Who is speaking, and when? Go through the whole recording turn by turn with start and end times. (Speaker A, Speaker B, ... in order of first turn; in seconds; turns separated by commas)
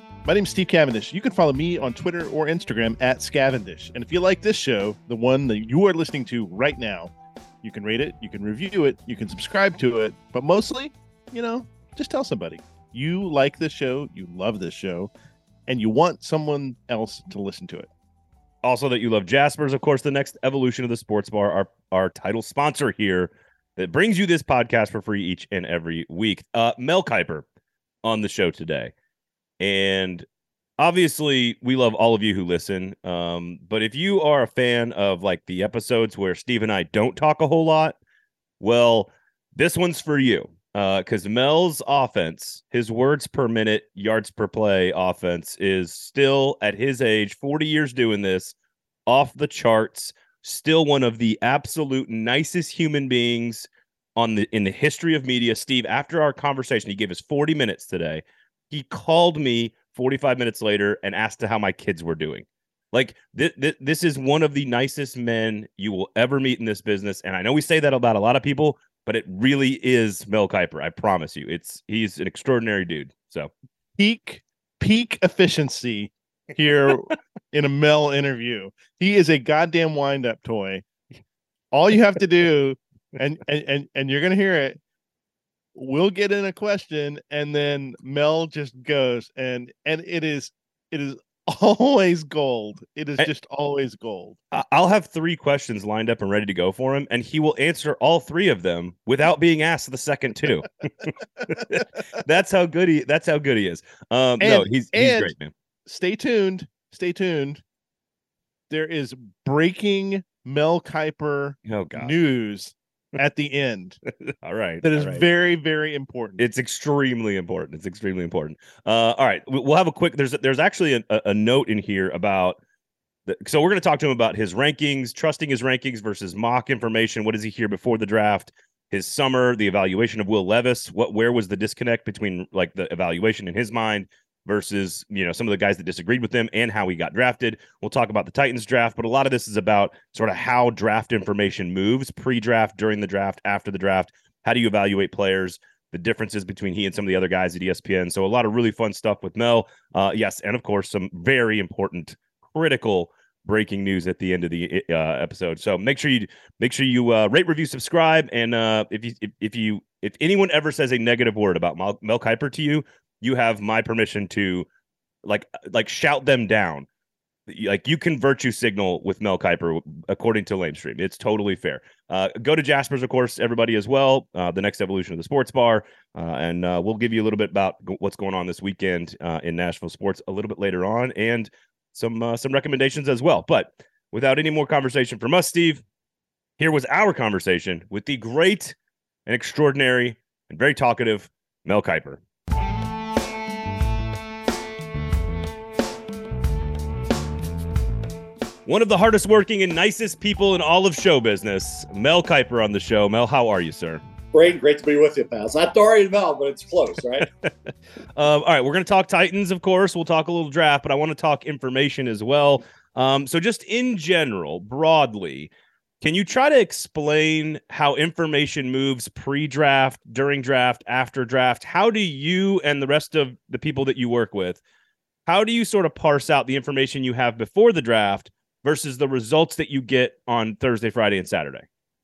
Speaker A: 0.2-7.1, Speaker A: 7.6-15.1, Speaker A: 15.7-17.9, Speaker B: 18.6-27.4, Speaker B: 28.0-28.9, Speaker B: 29.6-30.2, Speaker B: 30.8-38.0, Speaker B: 38.6-48.5, Speaker B: 49.1-73.5, Speaker A: 74.0-80.8, Speaker A: 81.7-84.8, Speaker A: 85.8-94.4, Speaker B: 94.5-105.5, Speaker A: 104.4-105.3, Speaker A: 105.9-107.6, Speaker A: 108.7-114.0, Speaker B: 111.7-112.1, Speaker B: 114.4-115.2, Speaker A: 114.8-116.4, Speaker B: 116.4-122.6, Speaker B: 123.3-164.7, Speaker B: 165.2-166.9, Speaker B: 167.5-185.8, Speaker B: 186.6-188.8, Speaker B: 189.3-192.2, Speaker B: 198.7-204.0, Speaker C: 204.3-207.3, Speaker B: 208.2-215.5, Speaker B: 216.0-224.6, Speaker B: 225.3-231.7